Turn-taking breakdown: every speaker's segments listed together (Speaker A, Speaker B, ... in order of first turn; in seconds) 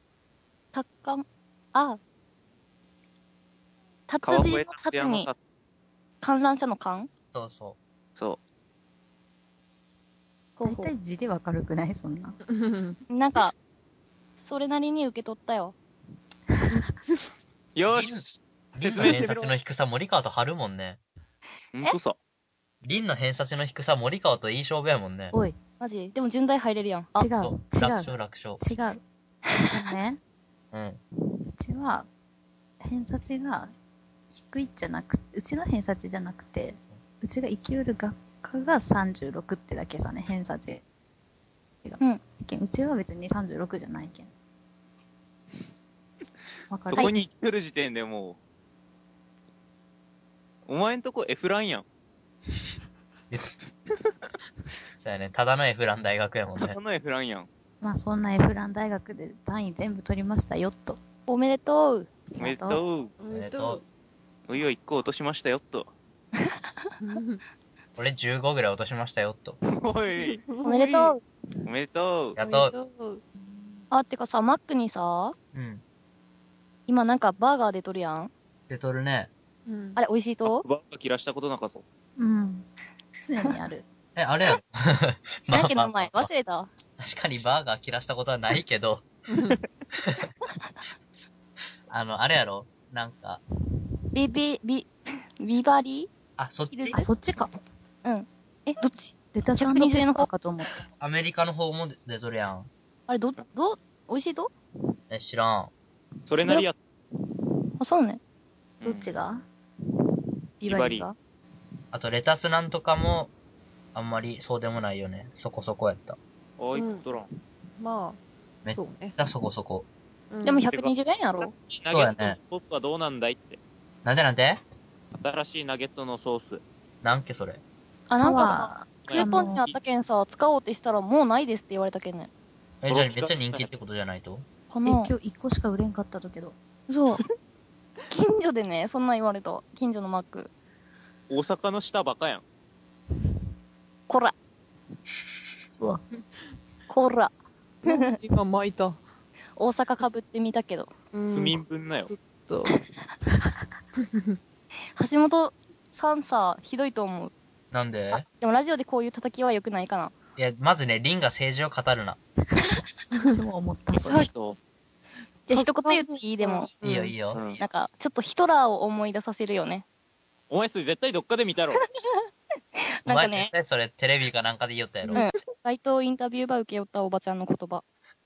Speaker A: 0.7-2.0, 4.1-5.3, 6.2-7.1, 10.6-10.9, 13.1-13.5, 14.4-15.8, 25.8-27.3, 61.3-62.1, 70.6-71.2, 73.9-75.3, 76.9-78.3, 80.0-80.6, 85.5-86.7, 94.1-96.1, 96.7-97.1, 98.0-100.3, 103.1-104.5, 107.8-108.2, 120.4-121.5, 128.1-132.3, 134.7-135.1, 136.9-137.2, 138.1-140.5, 144.1-144.3, 146.9-147.3, 147.8-148.1, 149.6-150.9, 154.9-157.3, 158.1-160.1, 165.5-166.7, 167.6-169.8, 172.0-172.2, 173.0-173.5, 175.1-177.8
Speaker B: 4.2-5.4, 17.7-19.6, 21.7-22.2, 46.9-48.4, 50.6-51.9, 56.6-57.5, 62.4-63.1, 64.5-65.9, 69.7-70.4, 71.7-72.3, 80.4-81.8, 106.3-106.8, 108.8-109.1, 110.6-111.1, 116.6-117.3, 120.7-123.6, 125.2-126.6, 129.0-129.8, 132.9-133.7, 141.3-142.4, 151.3-152.1, 163.9-164.6, 167.3-167.6, 170.5-171.8
Speaker C: 7.3-7.8, 17.9-18.2, 18.7-21.0, 22.8-25.3, 27.4-28.6, 30.7-31.0, 55.0-56.8, 63.3-63.8, 68.0-69.6, 72.3-72.7, 75.5-75.8, 78.7-79.3, 84.2-86.3, 87.0-89.1, 90.0-90.3, 91.9-93.4, 96.4-97.0, 101.0-102.7, 105.1-105.7, 111.9-113.3, 113.9-116.2, 118.6-119.9, 121.9-122.4, 124.0-124.6, 127.0-127.6, 132.8-134.4, 157.7-158.2, 160.4-162.2, 166.8-167.4, 173.1-175.2
Speaker D: 10.6-12.4, 27.1-29.0, 29.6-30.2, 31.5-32.1, 32.8-33.7, 34.3-40.8, 41.8-44.3, 46.7-47.1, 57.8-61.0, 62.4-62.8, 82.2-82.7, 83.2-83.8, 96.9-97.5, 99.3-100.8, 108.8-109.4, 110.6-111.2, 128.1-129.6, 134.8-136.5, 162.6-164.3
Speaker E: 12.5-13.0, 16.7-17.4, 63.2-63.8, 67.0-67.4, 70.2-71.2, 72.4-73.2, 79.7-80.0, 89.3-89.6, 116.7-117.0, 117.8-119.1, 120.3-120.7, 147.8-149.0, 151.1-152.7, 154.0-154.4, 165.7-167.1